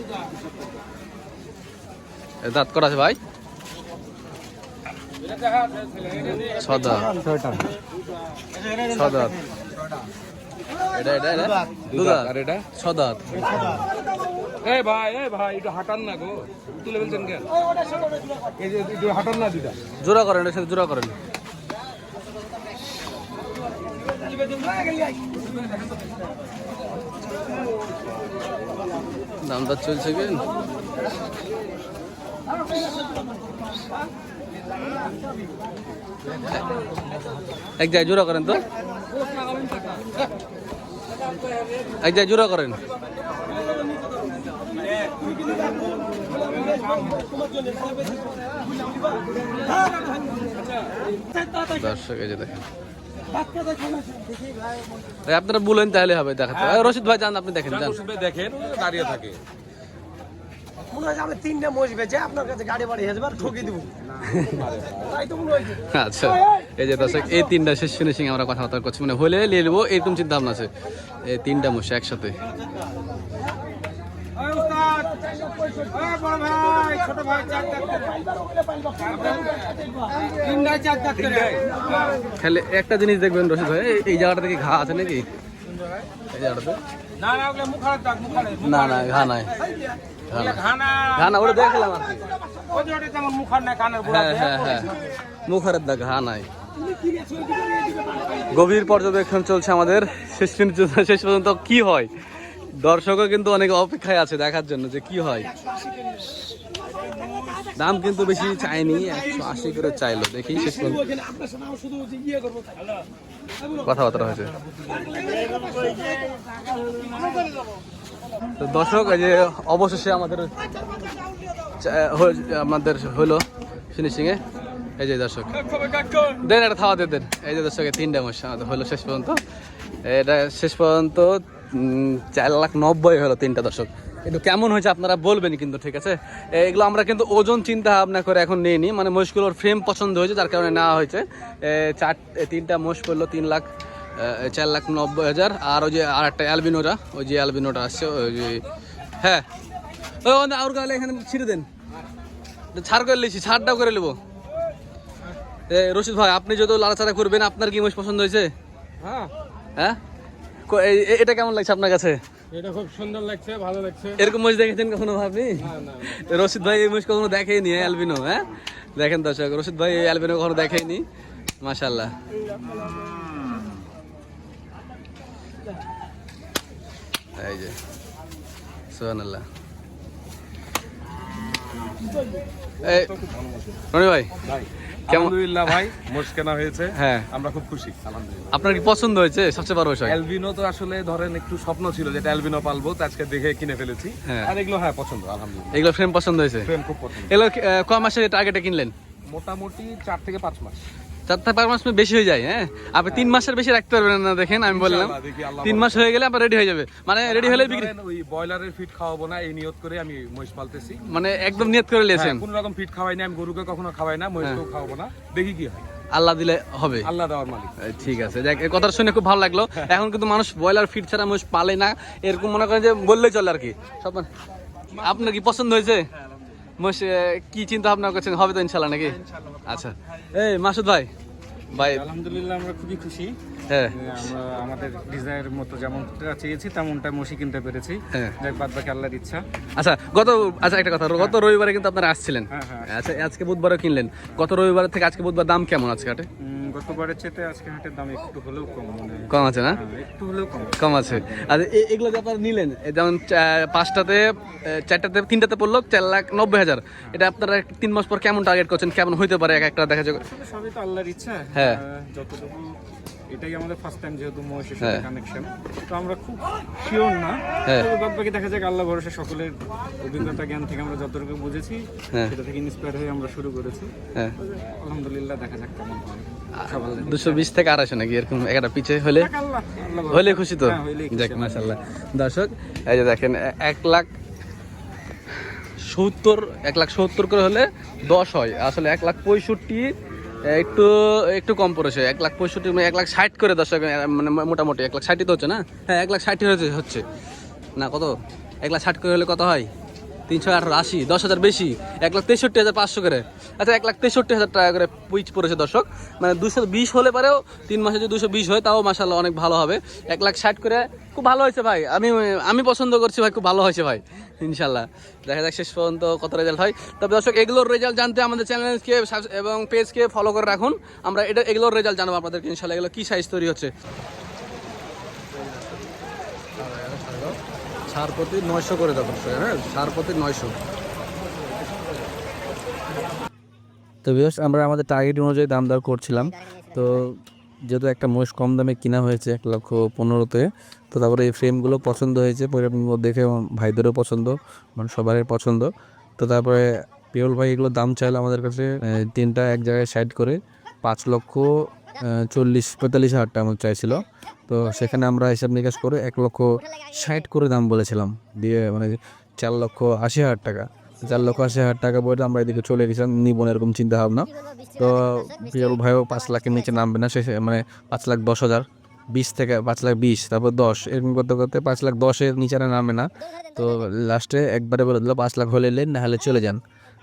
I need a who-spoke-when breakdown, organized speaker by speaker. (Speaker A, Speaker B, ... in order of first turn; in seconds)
Speaker A: 2.4-3.2, 6.3-7.2, 8.8-9.4, 10.8-13.7, 20.0-21.1, 29.4-30.4, 37.8-38.6, 42.0-42.8, 51.5-52.6, 55.2-58.0, 64.2-64.7, 65.7-70.7, 71.2-72.4, 82.2-85.2, 86.3-86.8, 88.4-89.6, 90.3-92.3, 93.9-96.5, 98.3-105.5, 107.7-111.2, 113.7-114.5, 118.6-120.5, 121.7-124.4, 125.0-125.7, 126.3-129.4, 130.0-148.6, 149.2-149.4, 150.2-151.7, 152.7-154.2, 155.7-158.5, 160.7-162.2, 164.1-171.1, 171.6-172.1, 177.4-177.8, 178.9-179.4, 182.8-183.1, 183.9-184.3, 185.1-185.8, 186.9-187.3, 188.5-190.2, 194.2-194.5, 195.7-198.9, 201.3-207.9, 211.1-212.4, 216.1-217.1, 217.8-224.3, 224.9-226.1, 226.8-231.1, 231.7-232.1, 233.7-234.1, 238.1-238.4, 239.8-246.3, 249.3-249.8, 250.8-260.2, 261.5-261.8, 264.8-265.1, 267.6-267.9, 276.6-279.3, 280.0-284.1, 285.8-289.9, 290.5-297.0, 297.8-298.1, 298.6-299.7, 300.3-323.7, 326.6-327.4, 327.9-330.5
Speaker B: 7.0-7.7, 76.1-78.1, 80.4-81.1, 87.2-88.4, 90.7-91.1, 92.7-94.6, 159.0-159.3, 162.6-163.8, 231.8-233.3, 233.9-239.4, 242.5-242.9, 246.4-251.5, 260.2-262.7, 263.3-277.5, 279.2-281.7
Speaker C: 11.9-12.7, 14.6-17.5, 18.5-19.8, 57.6-59.4, 62.8-65.6, 74.5-75.0, 81.0-82.2, 125.7-126.3, 182.8-183.8, 184.4-188.5, 190.1-195.9, 196.6-197.3, 199.3-200.8, 203.1-203.4, 204.7-206.0, 207.2-211.1, 212.1-215.8, 217.0-218.4
Speaker D: 60.9-63.1, 75.3-75.8, 77.2-78.3, 87.8-88.2, 111.4-111.9, 162.5-164.1
Speaker E: 334.0-337.1, 337.7-351.5, 352.0-376.6